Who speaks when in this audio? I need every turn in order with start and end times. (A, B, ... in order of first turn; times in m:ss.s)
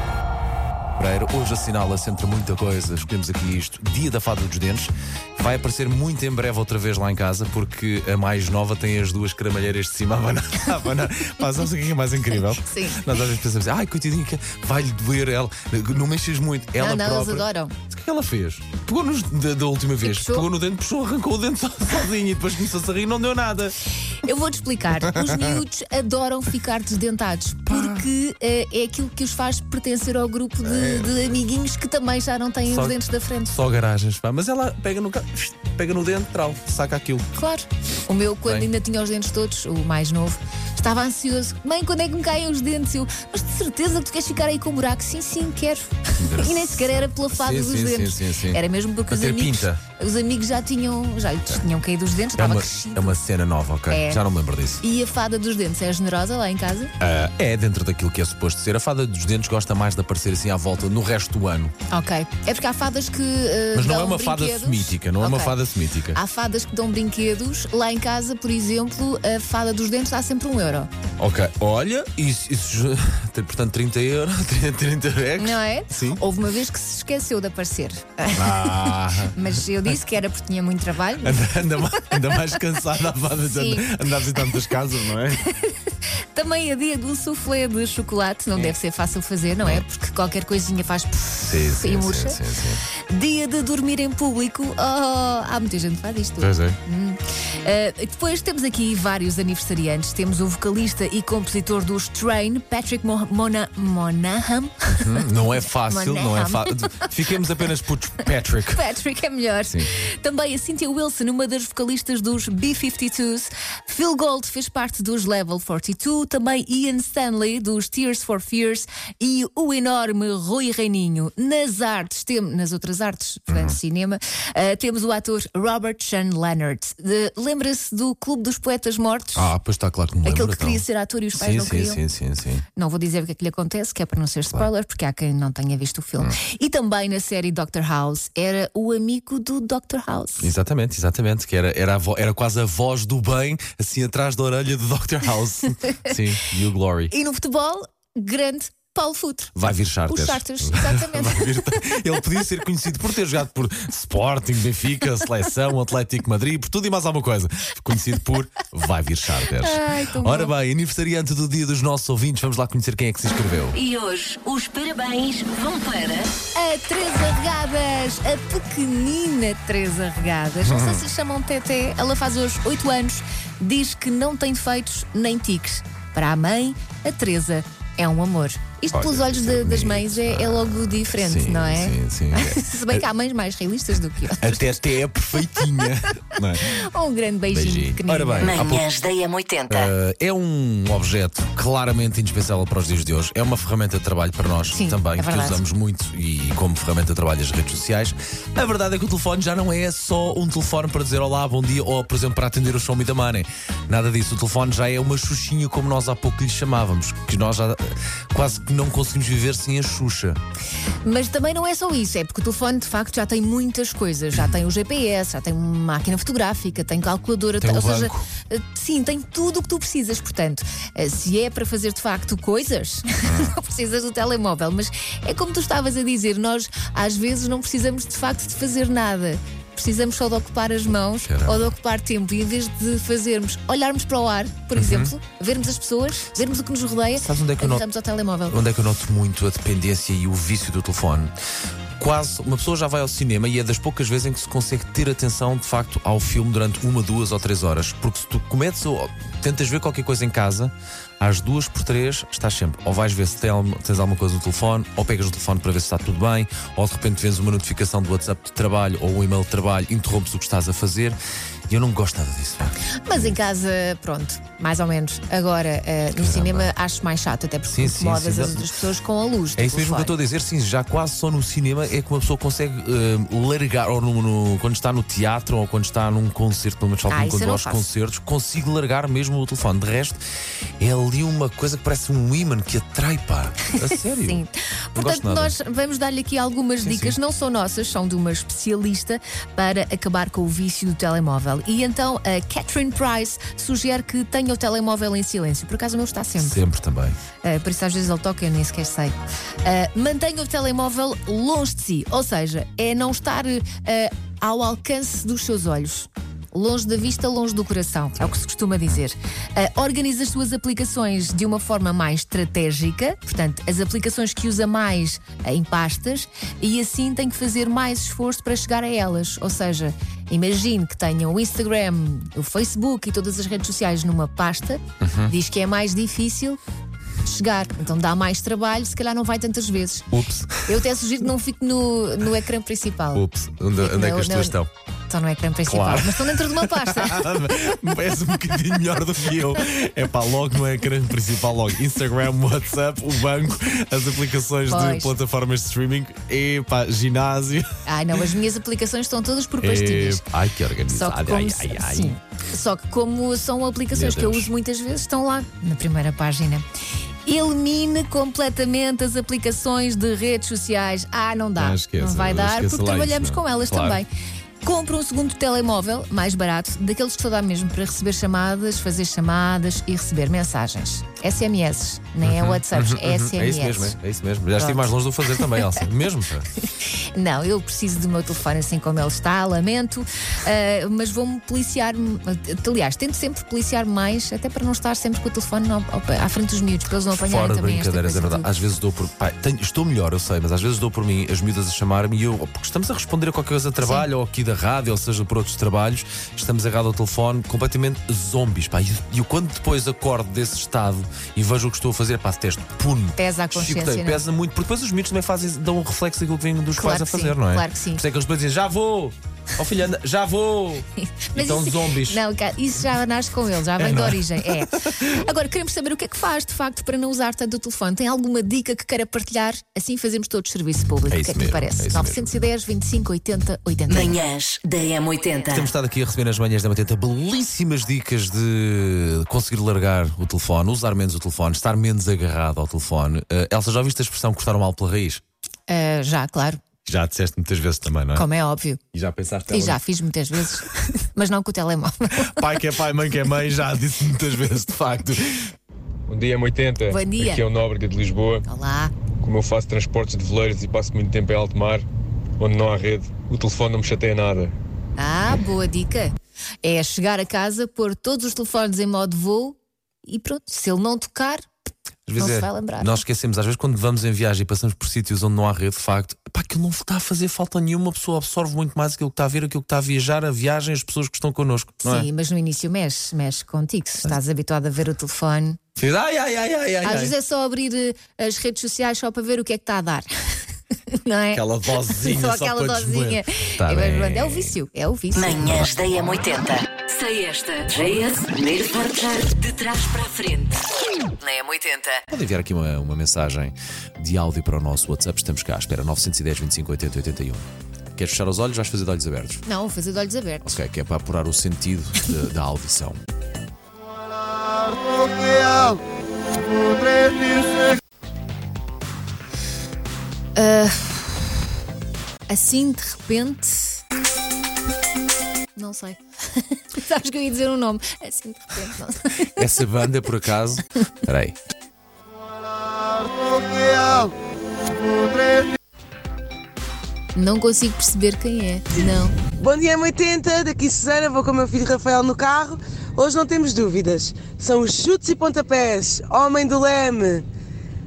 0:01.0-0:23.7 A
0:12.3-0:13.2 B
0:16.8-0:17.8 B
0:20.0-0:20.5 B
0:24.2-0:33.6 B
0:27.6-0:28.1 A
0:30.6-0:31.3 A
0:32.6-0:37.3 A
0:37.3-0:53.2 B
0:46.2-0:49.8 A
0:52.4-0:54.8 A
0:53.9-0:54.2 B
0:54.8-0:56.9 B
0:57.0-1:01.7 A
1:01.9-1:05.6 B
1:03.7-1:06.2 A
1:06.1-1:10.9 B
1:11.2-1:16.2 A
1:15.4-1:21.5 B
1:18.3-1:19.5 A
1:21.2-1:25.4 A
1:22.1-1:22.4 B
1:23.4-1:24.7 B
1:25.3-1:32.4 B
1:31.4-1:32.8 A
1:33.1-1:47.4 B
1:36.4-1:36.8 A
1:44.9-1:48.8 A
1:48.7-2:09.5 B
2:03.5-2:03.8 A
2:09.4-2:10.8 A
2:10.2-2:12.0 B
2:11.4-2:12.6 A
2:12.8-2:20.5 B
2:20.4-2:27.1 A
2:27.1-2:29.6 B
2:29.5-2:43.8 A
2:30.1-2:32.0 B
2:39.5-2:40.5 B
2:43.7-2:46.3 C
2:46.5-3:04.6 B
2:50.6-2:51.0 A
2:58.9-3:03.0 A
3:04.4-3:06.7 A
3:06.6-3:08.6 B
3:07.5-3:08.9 A
3:08.4-3:09.9 C
3:09.7-3:30.4 A
3:14.7-3:15.6 B
3:31.0-3:58.6 B
3:37.6-3:38.2 A
3:43.2-3:43.5 A
3:51.0-3:51.7 A
3:54.8-3:55.1 A
3:57.2-3:57.8 A
3:58.5-4:01.3 A
4:02.0-4:21.2 A
4:21.7-4:23.3 A
4:23.0-4:30.1 B
4:26.2-4:26.7 A
4:27.7-4:28.7 A
4:29.6-4:40.2 A
4:37.1-4:37.9 B
4:40.8-4:44.4 A
4:44.1-4:56.6 B
4:44.9-4:45.5 A
4:46.8-4:47.2 A
4:56.4-4:57.2 A
4:57.4-5:26.6 B
5:25.0-5:25.3 A
5:27.2-5:30.1 B
5:30.1-5:30.8 A
5:30.7-5:34.6 B
5:33.1-5:34.7 A
5:35.1-5:37.2 B
5:35.7-5:47.7 A
5:44.7-5:45.1 B
5:47.8-5:50.2 B
5:49.6-5:52.2 A
5:50.9-5:56.6 B
5:53.9-5:54.5 A
5:57.2-6:04.1 B
6:01.6-6:04.0 A
6:04.6-6:14.0 B
6:12.2-6:16.5 A
6:14.6-6:15.6 B
6:16.6-6:28.5 B
6:27.1-6:52.2 A
6:33.8-6:34.1 B
6:43.2-6:44.2 B
6:46.7-6:48.0 B
6:51.0-7:04.2 B
6:53.8-6:55.2 A
7:01.1-7:02.3 A
7:03.9-7:05.7 C
7:05.5-7:15.2 A
7:15.7-7:16.6 B
7:16.8-7:18.2 A
7:18.1-7:18.8 B
7:18.9-7:19.8 A
7:19.5-7:22.4 B
7:22.2-7:25.5 A
7:26.1-7:28.4 D
7:26.8-7:27.5 B
7:28.4-7:28.9 B
7:29.4-7:31.8 D
7:32.4-7:34.5 D
7:35.0-7:41.5 B
7:42.1-7:52.1 A
7:42.2-7:43.0 B
7:51.8-7:55.6 B
7:55.8-7:57.1 A
7:56.8-8:00.1 B
8:00.9-8:05.7 B
8:01.3-8:04.6 A
8:05.1-8:10.6 C
8:05.4-8:05.7 A
8:11.2-8:12.0 C
8:12.1-8:19.4 A
8:19.4-8:20.6 B
8:20.4-8:23.0 A
8:30.4-8:31.3 B
8:32.3-8:33.8 B
8:35.6-8:39.5 B
8:39.2-8:41.4 A
8:43.6-8:44.1 E
8:47.1-8:49.1 B
8:49.4-8:57.2 E